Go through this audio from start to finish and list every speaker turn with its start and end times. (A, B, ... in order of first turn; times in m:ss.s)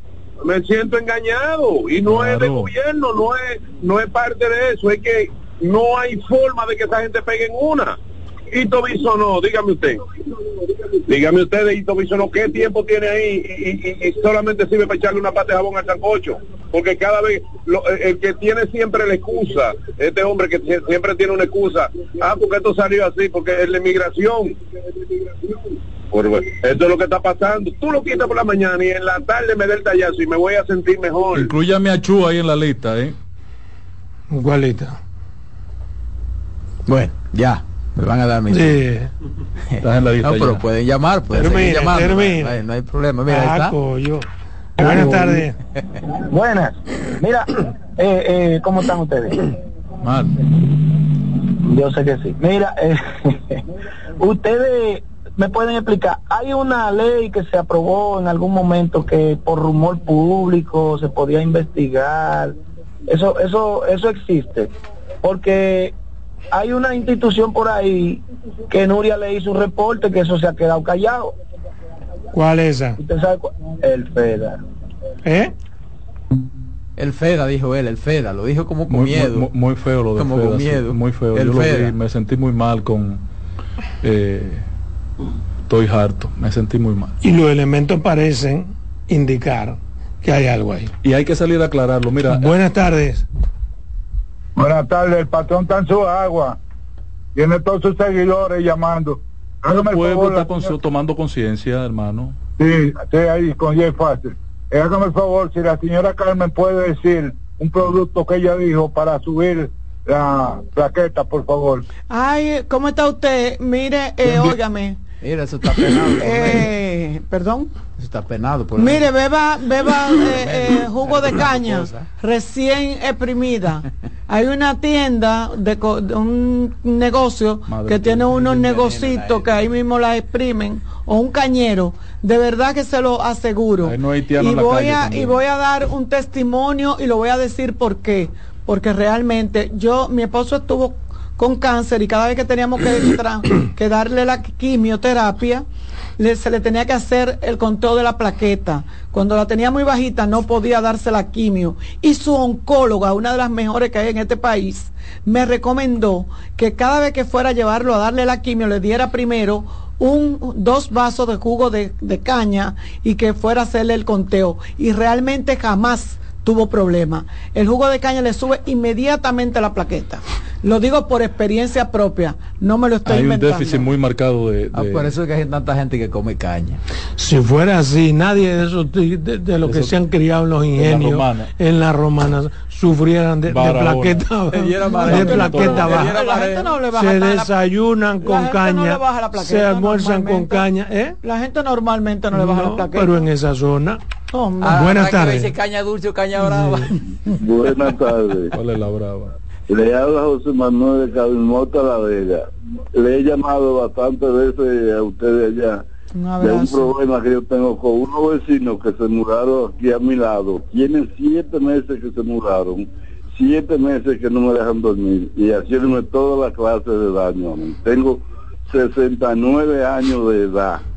0:00.4-0:08.0 A
0:02.0-0:02.7 B
0:08.5-0:10.0 A
0:11.1-0:24.6 A
0:26.1-0:31.5 A
0:31.3-0:33.2 B
0:34.3-0:35.0 C
0:36.9-0:38.8 D
0:38.5-0:39.1 C
0:39.7-0:43.8 D
0:39.8-0:40.6 B
0:41.3-0:42.6 C
0:43.3-0:44.2 C
0:44.8-0:45.6 C
0:44.8-0:45.4 E
0:46.3-0:49.5 E
0:51.6-0:53.6 E
0:54.2-1:04.7 E
1:05.2-1:05.9 E
1:06.5-1:11.3 E
1:12.3-1:13.0 C
1:13.0-1:14.6 E
1:15.2-1:15.5 C
1:17.0-1:19.5 D
1:18.9-1:23.2 B
1:20.2-1:22.0 D
1:24.0-1:24.7 B
1:25.7-1:27.2 B
1:27.2-1:30.9 C
1:31.0-1:32.5 B
1:32.3-1:33.2 C
1:34.6-1:36.6 F
1:37.4-1:40.7 F
1:39.7-1:42.4 B
1:42.6-1:51.9 F
1:52.1-1:55.0 G
1:54.2-1:54.5 F
1:55.2-1:56.7 D
1:56.2-1:57.7 G
1:58.0-1:59.1 D
1:58.8-2:25.6 G
2:00.2-2:02.1 D
2:07.7-2:08.4 B
2:08.3-2:09.5 D
2:13.8-2:15.4 B
2:26.2-2:53.9 G
2:53.1-2:55.1 B
2:54.7-2:56.8 D
2:57.2-3:06.2 C
2:59.6-3:00.0 B
3:00.8-3:01.5 B
3:03.5-3:04.3 B
3:04.5-3:06.8 D
3:04.9-3:07.5 G
3:05.1-3:06.0 B
3:06.9-3:11.2 C
3:08.2-3:10.7 G
3:11.2-3:13.3 G
3:12.3-3:14.0 C
3:14.3-3:14.9 G
3:14.6-3:16.9 D
3:14.7-3:15.5 C
3:16.5-3:16.9 C
3:17.4-3:18.5 H
3:18.5-3:19.3 B
3:19.7-3:25.8 H
3:26.2-3:26.9 G
3:26.4-3:40.8 H